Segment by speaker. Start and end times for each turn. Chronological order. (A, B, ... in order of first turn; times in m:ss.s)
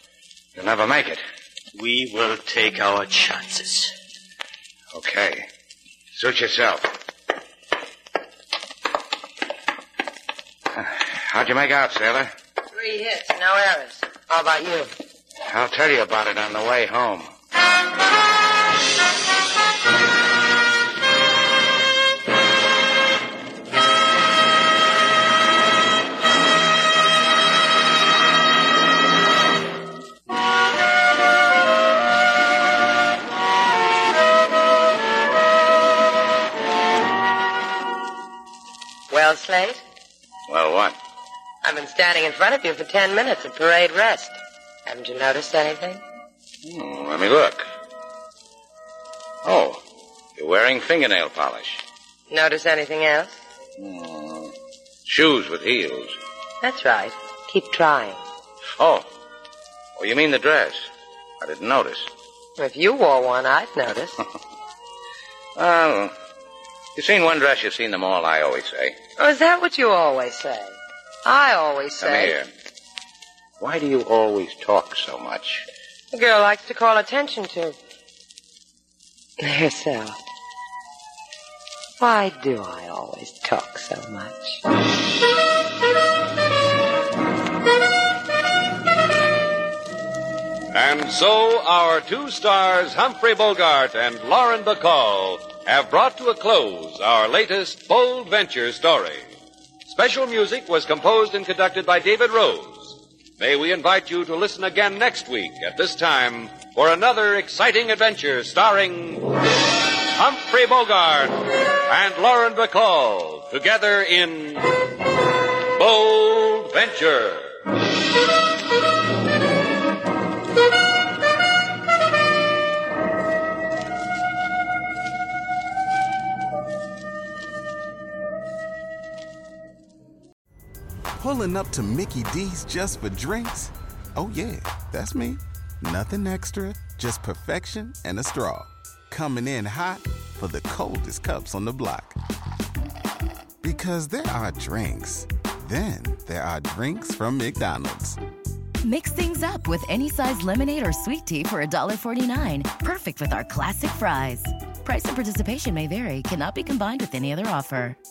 0:00.6-0:01.2 A
0:01.7-0:03.9 B
0:04.9-0:05.5 A
0:06.1-0:07.0 A
0:10.7-0:12.3 A
0:12.7-0:14.9 C
0:15.5-0:17.3 A
0:39.1-0:39.8 C
0:40.5-0:41.0 A
0:41.6-0:46.0 C
0:46.6-0:47.7 A
0:49.4-0:49.8 A
0:50.4-0:51.8 A
0:52.3-0:53.4 C
0:53.8-0:54.5 A
0:55.1-0:56.2 A
0:56.6-0:58.2 C
0:58.8-0:59.1 A
1:00.0-1:00.9 A
1:01.4-1:02.1 A
1:02.6-1:04.2 C
1:05.6-1:06.1 A
1:07.0-1:09.0 A
1:09.2-1:12.4 C
1:12.0-1:12.5 A
1:13.6-1:15.7 A
1:16.1-1:17.8 C
1:19.4-1:20.2 C
1:22.0-1:24.6 C
1:30.7-1:39.3 D
1:39.9-1:49.3 D
1:50.1-1:54.7 D
1:55.7-1:57.6 D
2:11.2-2:22.2 E
2:23.6-2:28.2 E
2:28.8-2:38.0 F